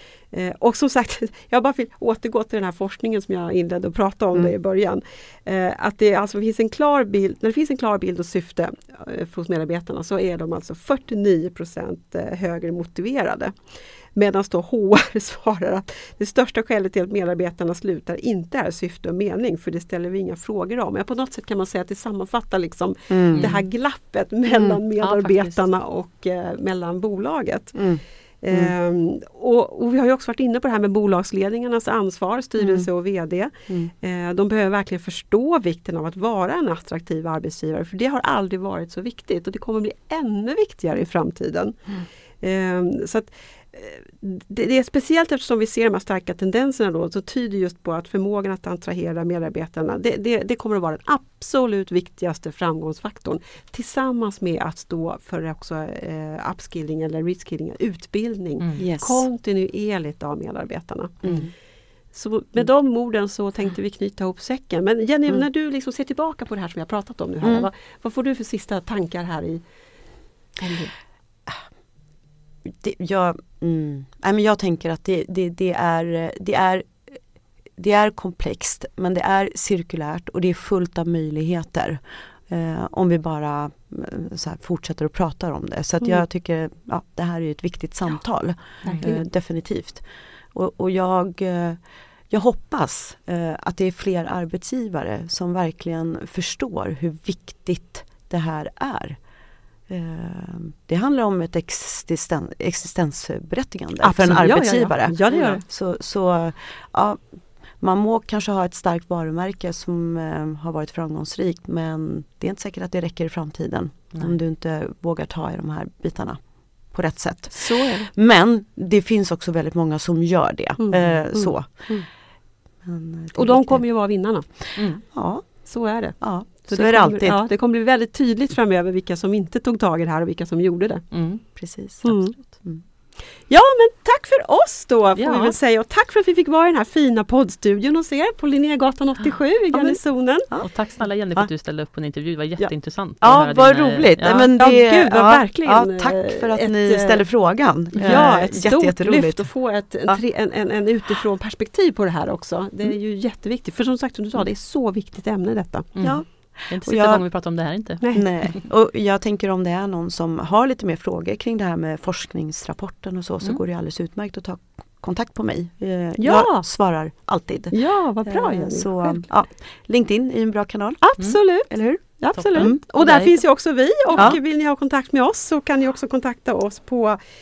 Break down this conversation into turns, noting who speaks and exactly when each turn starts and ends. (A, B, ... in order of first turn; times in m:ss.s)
0:00.3-1:01.5 A
0:23.1-0:23.5 B
0:23.4-0:23.6 C
0:24.5-0:24.8 B
0:25.0-0:25.6 C
0:27.8-0:28.7 B
0:32.6-0:32.9 B
0:58.8-0:59.2 B
1:01.2-1:01.5 B
1:02.1-1:09.6 A
1:07.4-1:07.7 B
1:10.6-1:10.9 A
1:12.6-1:17.2 B
1:17.8-1:30.0 B
1:28.8-1:29.1 A
1:30.5-1:39.2 B
1:39.9-1:47.2 B
1:44.0-1:45.6 A
1:47.8-2:01.9 B
1:57.5-1:58.1 A
2:00.8-2:02.1 A
2:02.8-2:03.8 B
2:03.4-2:04.7 A
2:04.7-2:05.0 C
2:05.1-2:05.6 B
2:05.6-2:11.1 A
2:06.2-2:07.4 B
2:11.1-2:11.4 C
2:11.6-2:12.8 B
2:12.0-2:12.3 A
2:13.5-2:20.5 A
2:15.2-2:15.6 C
2:19.7-2:20.0 B
2:20.6-2:24.5 C
2:22.6-2:29.5 B
2:24.6-2:27.2 A
2:28.0-2:35.9 A
2:35.9-2:38.6 C
2:36.0-2:37.2 B
2:38.0-2:38.3 A
2:38.1-2:52.8 B
2:46.2-2:46.6 A
2:47.7-2:49.3 A
2:51.0-2:57.2 A
2:52.3-2:53.4 C
2:54.1-2:54.4 C